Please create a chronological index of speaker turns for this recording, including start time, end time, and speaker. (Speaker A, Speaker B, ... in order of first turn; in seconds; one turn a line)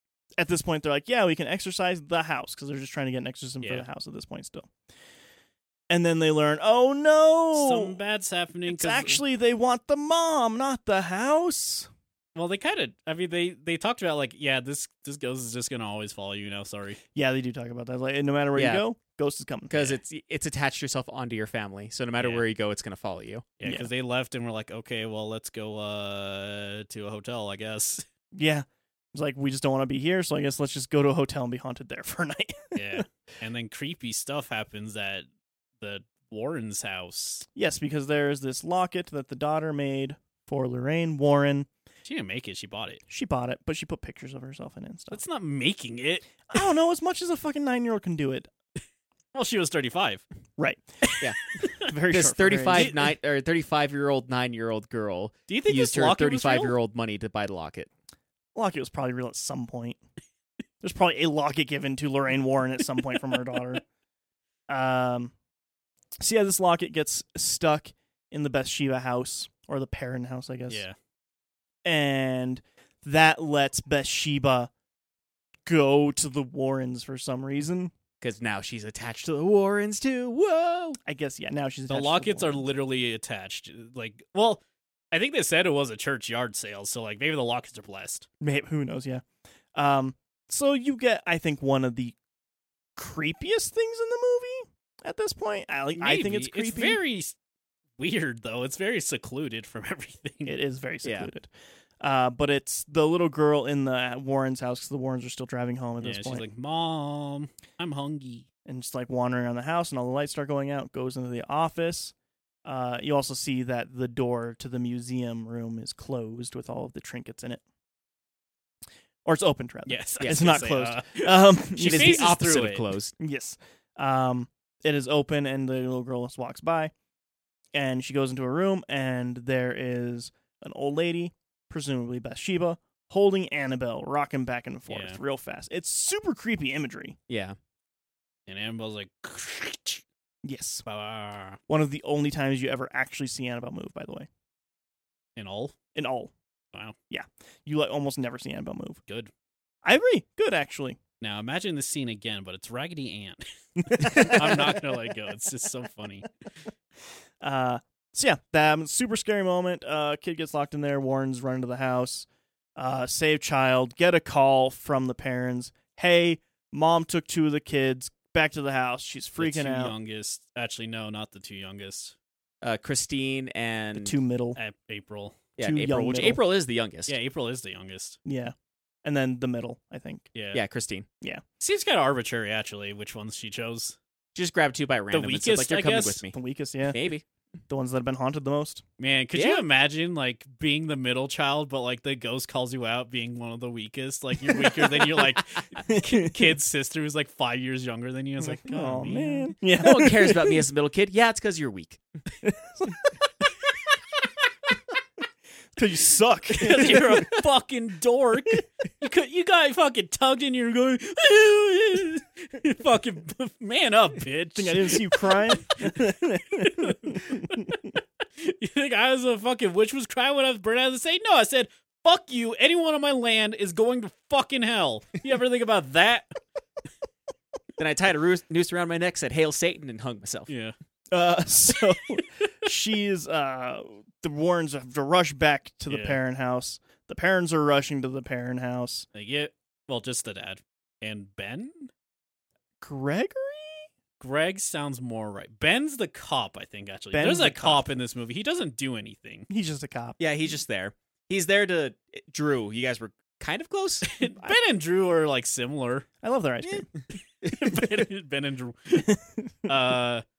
Speaker A: 0.4-4.7
Speaker A: 5.9-8.0
Speaker B: 7.5-9.2
Speaker A: 8.7-11.9
Speaker B: 12.3-17.0
Speaker A: 17.1-19.9
Speaker C: 18.6-18.8
Speaker C: 19.7-23.5
Speaker B: 22.2-22.4
Speaker B: 23.6-28.1
Speaker A: 28.3-33.0
Speaker B: 32.8-35.3
Speaker B: 35.8-37.5
Speaker A: 37.6-41.7
Speaker B: 42.0-43.0
Speaker A: 43.1-45.2
Speaker B: 45.1-46.5
Speaker A: 46.5-48.5
Speaker B: 49.3-50.2
Speaker A: 50.6-51.2
Speaker B: 51.2-51.9
Speaker A: 51.7-52.9
Speaker C: 52.1-57.9
Speaker B: 52.7-53.1
Speaker B: 55.5-56.8
Speaker A: 58.5-60.0
Speaker A: 60.8-63.8
Speaker A: 64.7-65.3
Speaker A: 66.2-70.8
Speaker B: 70.7-71.0
Speaker A: 71.8-74.7
Speaker A: 75.7-77.9
Speaker C: 78.2-81.0
Speaker A: 81.1-82.7
Speaker B: 81.9-84.6
Speaker B: 85.1-88.3
Speaker A: 88.4-89.2
Speaker A: 89.8-92.2
Speaker A: 93.0-97.0
Speaker B: 96.0-97.3
Speaker B: 98.0-100.5
Speaker A: 100.5-101.5
Speaker C: 101.0-101.3
Speaker A: 102.0-106.5
Speaker B: 106.0-108.5
Speaker A: 108.7-112.1
Speaker A: 112.7-117.6
Speaker A: 119.2-122.4
Speaker B: 119.9-122.9
Speaker C: 120.2-120.5
Speaker C: 121.8-123.2
Speaker A: 123.2-126.9
Speaker A: 127.7-137.2
Speaker B: 134.9-135.2
Speaker C: 137.3-137.6
Speaker B: 138.5-140.0
Speaker A: 140.4-140.8
Speaker B: 140.8-141.6
Speaker A: 141.7-144.3
Speaker B: 145.4-145.8
Speaker A: 145.9-146.3
Speaker A: 147.1-149.0
Speaker A: 149.8-151.0
Speaker B: 151.2-156.3
Speaker A: 153.8-154.9
Speaker A: 157.4-169.9
Speaker B: 169.4-172.2
Speaker C: 172.6-174.2
Speaker A: 173.9-174.6
Speaker B: 174.6-175.4
Speaker C: 175.6-177.2
Speaker A: 175.6-176.4
Speaker B: 177.1-178.2
Speaker A: 178.2-180.3
Speaker B: 180.3-180.6
Speaker C: 180.5-181.1
Speaker B: 181.6-184.0
Speaker C: 184.3-186.3
Speaker B: 185.1-186.2
Speaker A: 186.3-187.0
Speaker C: 186.9-187.2
Speaker A: 187.7-188.8
Speaker B: 189.0-199.6
Speaker C: 189.3-189.6
Speaker A: 194.5-195.3
Speaker A: 195.8-196.3
Speaker A: 198.4-200.6
Speaker C: 199.8-202.0
Speaker A: 202.4-203.5
Speaker A: 205.8-207.4
Speaker B: 206.5-216.0
Speaker A: 214.6-217.8
Speaker B: 216.6-217.8
Speaker B: 218.4-226.4
Speaker C: 227.8-230.5
Speaker B: 230.5-230.8
Speaker A: 231.1-239.1
Speaker B: 235.9-236.2
Speaker B: 239.2-241.9
Speaker A: 242.8-243.9
Speaker B: 244.2-249.5
Speaker A: 247.1-247.9
Speaker A: 249.5-250.2
Speaker C: 250.2-254.1
Speaker B: 254.1-256.1
Speaker A: 254.2-254.6
Speaker A: 256.2-256.9
Speaker B: 257.4-259.1
Speaker C: 257.4-257.9
Speaker A: 259.0-259.7
Speaker B: 259.7-260.2